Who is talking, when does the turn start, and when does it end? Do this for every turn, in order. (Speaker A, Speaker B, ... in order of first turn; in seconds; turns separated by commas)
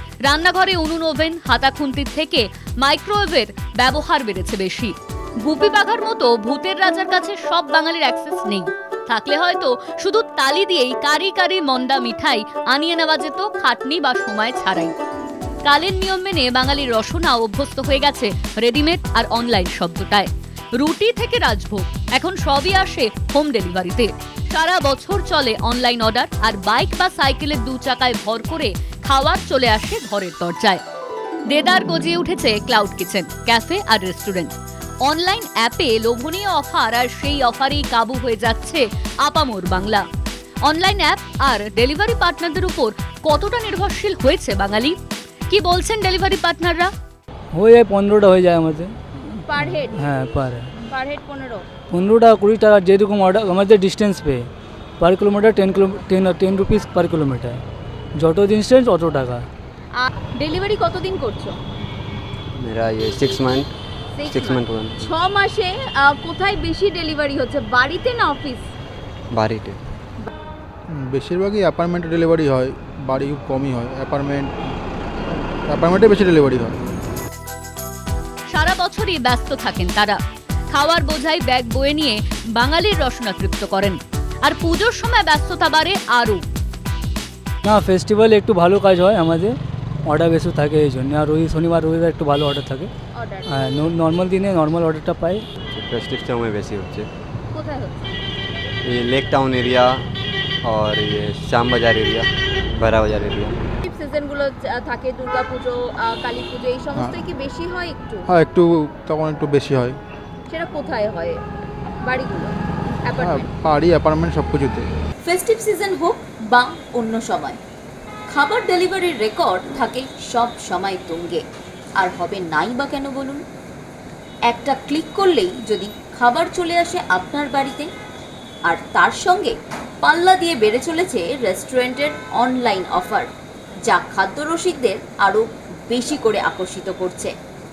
Speaker A: 0.2-14.9, Speaker A: 15.6-30.8, Speaker A: 31.5-40.0, Speaker A: 40.6-45.0, Speaker A: 45.5-46.9, Speaker B: 47.5-48.9, Speaker C: 49.4-51.6, Speaker B: 49.4-50.7, Speaker B: 51.9-54.4, Speaker B: 55.0-57.6, Speaker B: 58.2-59.4, Speaker C: 60.0-61.6, Speaker D: 62.6-63.7, Speaker C: 64.2-68.7, Speaker D: 64.2-65.1, Speaker D: 69.3-69.8, Speaker E: 70.9-74.7, Speaker E: 75.7-76.8, Speaker A: 78.5-80.2, Speaker A: 80.7-86.4, Speaker B: 87.6-89.5, Speaker B: 90.0-92.9, Speaker C: 93.1-93.8, Speaker B: 93.5-95.4, Speaker D: 95.7-97.1, Speaker C: 97.5-98.1, Speaker D: 98.8-100.0, Speaker D: 100.7-103.6, Speaker C: 103.8-108.3, Speaker E: 108.3-110.0, Speaker C: 110.5-111.4, Speaker C: 112.0-113.5, Speaker E: 113.2-114.9, Speaker F: 115.2-117.6, Speaker F: 118.3-121.4, Speaker F: 122.0-123.4, Speaker F: 124.5-127.9, Speaker F: 128.7-133.3, Speaker F: 133.9-137.3